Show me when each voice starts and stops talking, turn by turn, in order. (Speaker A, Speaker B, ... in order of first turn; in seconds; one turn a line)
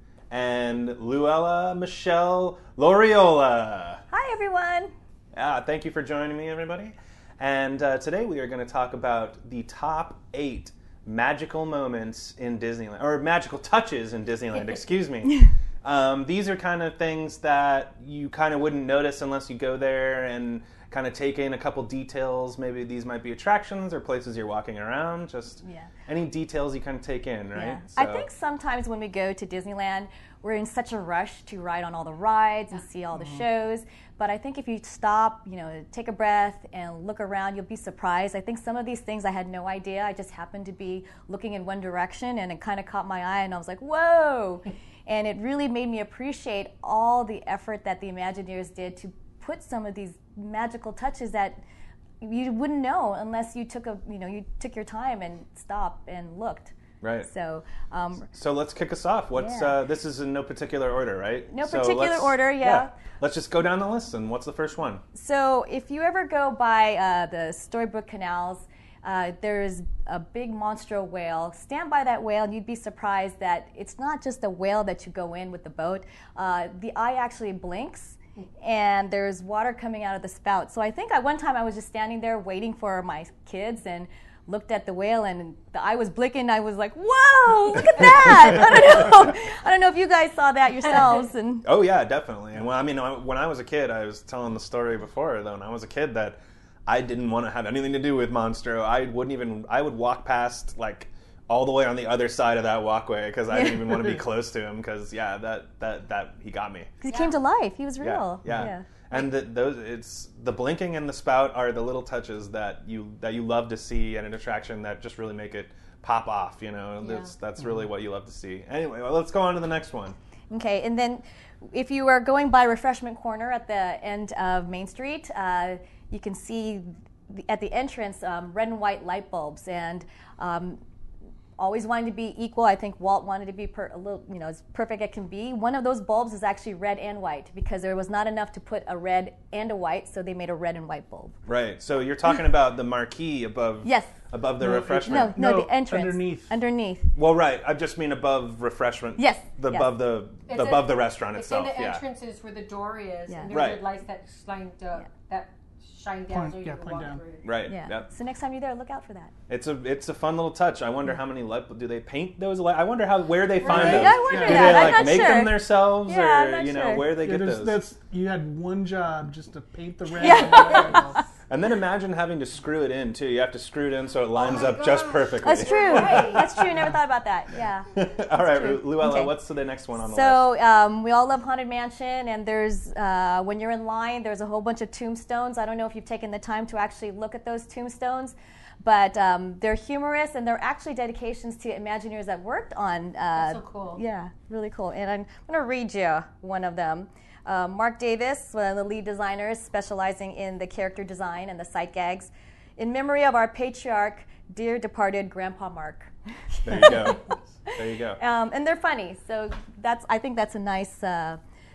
Speaker A: 0.3-4.0
Speaker B: 4.1-4.9
Speaker A: 5.3-28.3
Speaker B: 25.6-25.9
Speaker B: 27.6-51.6
Speaker B: 52.2-58.3
Speaker A: 57.0-57.3
Speaker A: 58.3-65.0
Speaker B: 59.3-59.8
Speaker B: 61.5-62.9
Speaker B: 65.2-91.7
Speaker A: 91.6-107.0
Speaker B: 103.5-104.1
Speaker B: 107.0-108.9
Speaker C: 107.1-107.4
Speaker A: 108.0-120.2
Speaker C: 117.0-117.3
Speaker B: 120.5-130.8
Speaker B: 131.6-141.4
Speaker A: 141.5-145.4
Speaker B: 143.8-144.2
Speaker D: 144.6-146.5
Speaker B: 145.0-147.1
Speaker A: 147.1-152.0
Speaker B: 149.2-149.9
Speaker C: 150.5-157.5
Speaker B: 153.3-153.6
Speaker A: 153.5-153.8
Speaker D: 156.3-157.2
Speaker A: 157.4-158.1
Speaker B: 157.7-159.3
Speaker A: 159.5-167.8
Speaker C: 163.6-164.7
Speaker D: 163.6-165.2
Speaker B: 163.8-167.1
Speaker D: 167.2-171.2
Speaker C: 170.1-171.2
Speaker B: 170.2-171.2
Speaker A: 171.5-176.5
Speaker C: 174.3-176.5
Speaker B: 175.4-179.3
Speaker A: 177.9-180.5
Speaker B: 180.0-206.1
Speaker C: 193.3-194.0
Speaker A: 206.6-208.2
Speaker B: 206.7-207.1
Speaker B: 207.7-211.4